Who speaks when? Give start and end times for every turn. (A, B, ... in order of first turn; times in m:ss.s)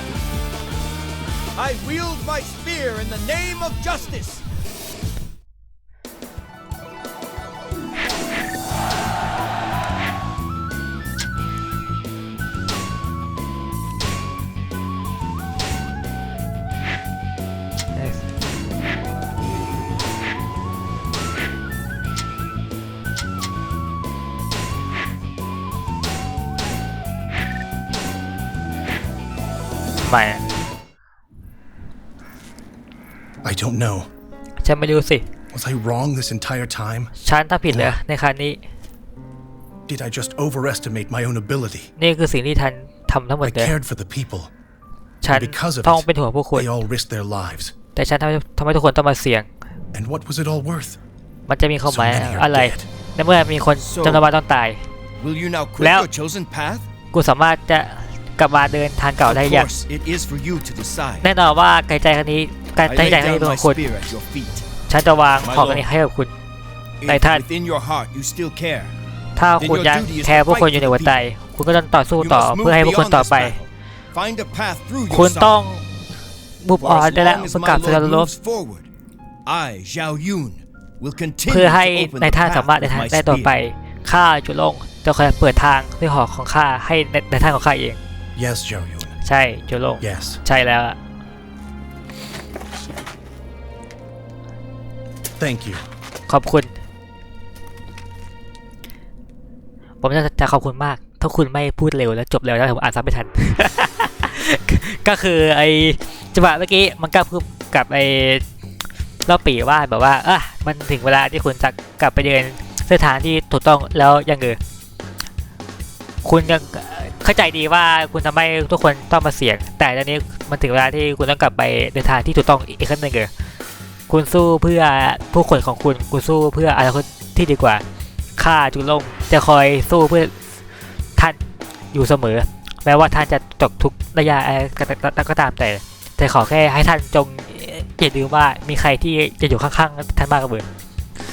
0:01.6-0:04.4 A
0:18.0-0:18.2 B
0:30.0-0:30.4 B
0:33.4-0:34.1 C
0:34.6-0:35.2 B
0:35.5-0:37.1 C
0:37.2-0:38.6 B
0:37.7-0:38.0 C
0:39.9-0:41.9 C
0:42.0-0:43.7 B
0:43.4-0:44.5 C
0:45.2-0:46.7 B
0:45.2-0:47.7 C
0:47.9-0:49.5 B
0:49.9-0:51.0 C
0:51.5-0:54.8 B
0:51.8-0:52.9 C
0:53.8-0:54.2 D
0:55.2-0:56.9 D
0:55.8-0:56.1 B
0:57.1-0:59.7 B
0:59.2-1:01.3 D
1:01.2-1:03.8 B
1:02.8-1:04.6 D
1:04.9-1:06.3 B
1:05.4-1:05.8 D
1:07.0-1:08.9 D
1:07.0-1:07.4 B
1:09.4-1:13.6 B
1:09.6-1:11.2 D
1:12.2-1:15.6 D
1:15.1-1:15.8 B
1:16.6-1:18.3 B
1:16.8-1:18.9 D
1:19.4-1:23.5 D
1:21.4-1:28.0 B
1:28.3-1:29.2 C
1:29.2-1:31.0 B
1:30.0-1:30.4 C
1:35.4-1:35.8 C
1:36.3-1:36.7 B
1:40.0-1:48.4 B
1:49.2-1:54.6 B
1:56.2-2:03.3 B
2:04.1-2:07.8 B
2:08.4-2:10.3 B
2:11.9-2:20.6 B